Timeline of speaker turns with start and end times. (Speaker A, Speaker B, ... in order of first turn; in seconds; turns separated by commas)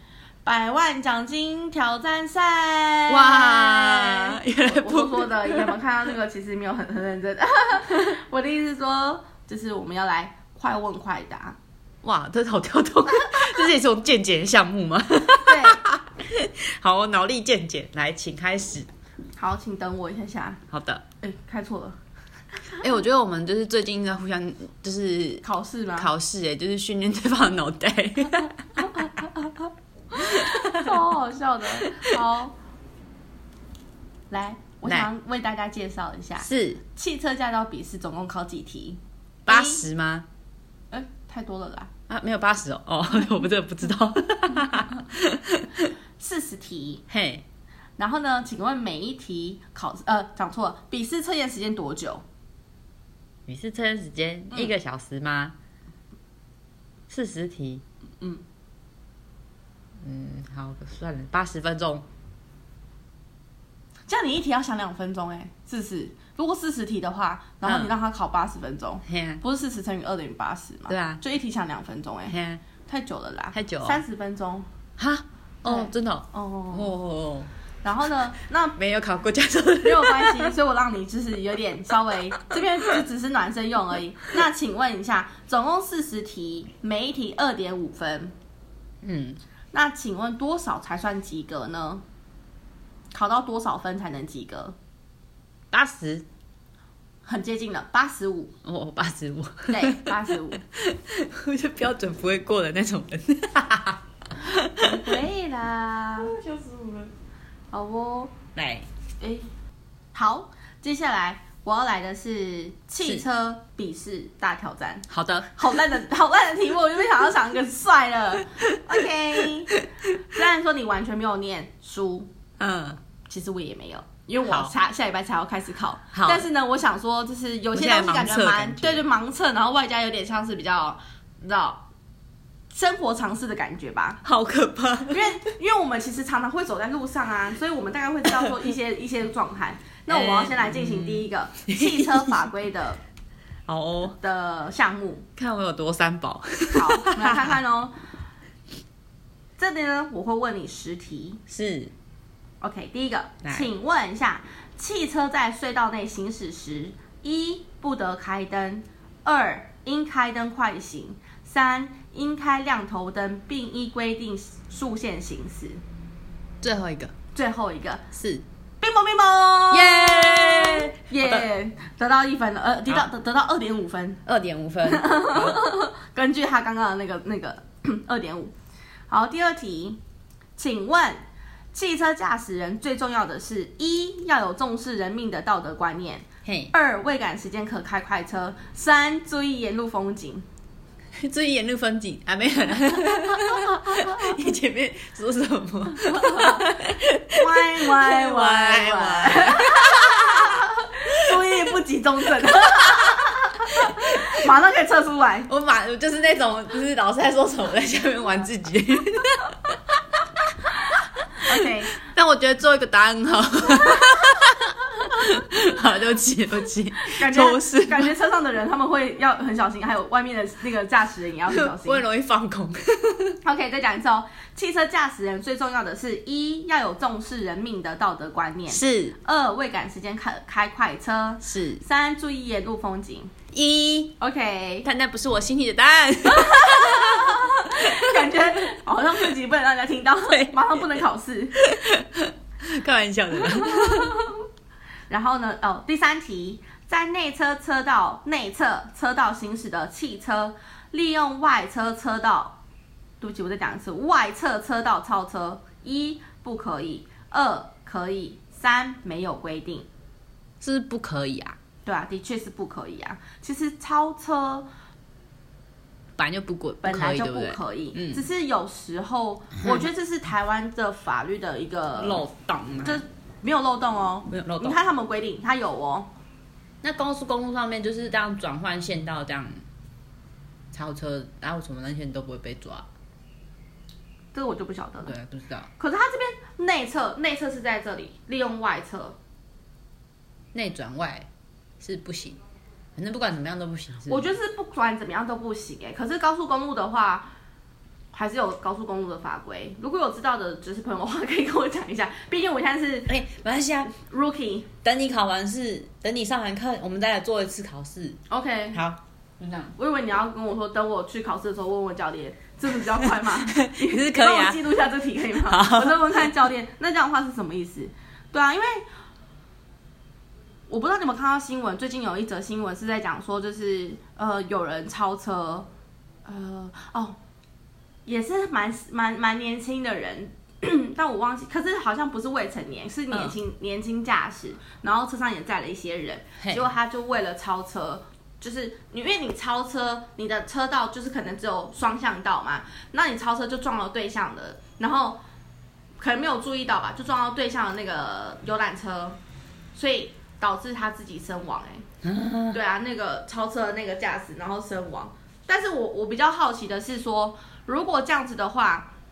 Speaker A: 0.4-11.6, Speaker B: 3.1-5.8, Speaker B: 12.0-18.9, Speaker A: 15.4-15.8, Speaker A: 19.4-20.6, Speaker B: 20.7-21.0, Speaker A: 21.2-22.0, Speaker B: 22.8-25.4, Speaker A: 25.4-26.1, Speaker B: 25.9-29.3, Speaker A: 28.8-29.5, Speaker A: 30.1-32.5, Speaker B: 30.1-31.0, Speaker B: 31.8-32.2, Speaker A: 34.3-39.8, Speaker B: 36.4-36.8, Speaker B: 39.5-40.3, Speaker A: 40.9-41.9, Speaker B: 42.1-45.9, Speaker A: 46.2-47.0, Speaker B: 47.1-47.4, Speaker A: 48.0-52.2, Speaker B: 53.5-55.5, Speaker B: 57.1-57.8, Speaker B: 60.0-62.0, Speaker A: 64.1-72.3, Speaker B: 67.6-67.9, Speaker B: 69.0-69.4, Speaker B: 70.9-71.2, Speaker B: 72.3-72.6, Speaker A: 72.9-74.7, Speaker B: 73.5-74.0, Speaker B: 75.0-77.5, Speaker A: 75.6-76.9, Speaker A: 77.8-78.8, Speaker B: 78.8-80.5, Speaker A: 79.8-88.3, Speaker B: 89.0-89.4, Speaker A: 89.7-92.0, Speaker A: 93.1-94.8, Speaker B: 95.7-96.2, Speaker A: 97.2-98.5, Speaker B: 98.6-105.2, Speaker A: 99.7-100.6, Speaker A: 104.8-106.3, Speaker B: 106.2-107.1, Speaker A: 107.7-108.3, Speaker B: 108.5-108.9, Speaker A: 109.2-109.5, Speaker A: 110.1-122.3, Speaker B: 115.1-115.8, Speaker B: 122.6-123.0, Speaker A: 123.3-131.8, Speaker B: 124.4-124.7, Speaker B: 126.1-126.5, Speaker B: 127.7-129.0, Speaker A: 132.7-134.2, Speaker B: 134.2-135.4, Speaker A: 135.1-143.0, Speaker B: 140.1-142.4, Speaker B: 143.7-144.2, Speaker A: 144.2-145.3, Speaker B: 145.4-147.6, Speaker A: 146.7-147.9, Speaker A: 149.6-151.4, Speaker B: 151.5-151.9, Speaker A: 152.6-165.8, Speaker B: 153.4-153.7, Speaker B: 166.6-167.1, Speaker A: 167.3-168.0, Speaker B: 168.1-168.4, Speaker A: 168.8-174.2, Speaker B: 169.7-171.5, Speaker B: 174.2-175.6, Speaker A: 174.8-178.5, Speaker A: 179.1-180.0, Speaker A: 180.6-190.4, Speaker B: 186.4-186.7, Speaker B: 191.2-201.4, Speaker A: 196.1-196.7, Speaker A: 197.3-205.5, Speaker B: 202.4-204.5, Speaker B: 205.5-210.2, Speaker A: 211.4-211.9, Speaker B: 211.5-218.1, Speaker A: 217.0-222.0, Speaker B: 221.5-223.4, Speaker A: 223.4-233.3, Speaker B: 228.7-229.2, Speaker B: 231.4-231.8, Speaker B: 233.5-234.2, Speaker A: 234.2-234.9, Speaker B: 234.8-238.3, Speaker A: 236.3-241.6, Speaker B: 240.3-240.8, Speaker B: 241.6-244.2, Speaker A: 243.6-244.3, Speaker A: 245.1-252.6, Speaker A: 253.2-259.9, Speaker B: 260.6-261.6, Speaker A: 261.8-264.7, Speaker B: 266.2-268.2, Speaker A: 266.8-272.2, Speaker B: 271.9-273.0, Speaker A: 272.8-276.1, Speaker B: 274.3-274.8, Speaker B: 276.8-279.6, Speaker B: 280.7-282.9, Speaker A: 284.3-285.1, Speaker B: 285.0-285.7, Speaker A: 285.8-289.2, Speaker B: 290.5-291.3, Speaker B: 291.8-292.4, Speaker B: 292.9-294.3, Speaker A: 294.1-297.3, Speaker A: 298.1-303.1, Speaker B: 303.1-303.9, Speaker A: 303.9-304.7, Speaker B: 304.8-308.2, Speaker A: 308.3-308.8, Speaker B: 308.7-309.7, Speaker A: 309.8-318.9, Speaker B: 313.0-314.7, Speaker B: 315.4-316.3, Speaker A: 320.7-325.7, Speaker A: 326.2-327.2, Speaker A: 328.1-345.2, Speaker B: 333.1-333.4, Speaker A: 346.0-349.2, Speaker A: 349.7-351.9, Speaker B: 352.0-352.6, Speaker A: 352.5-358.9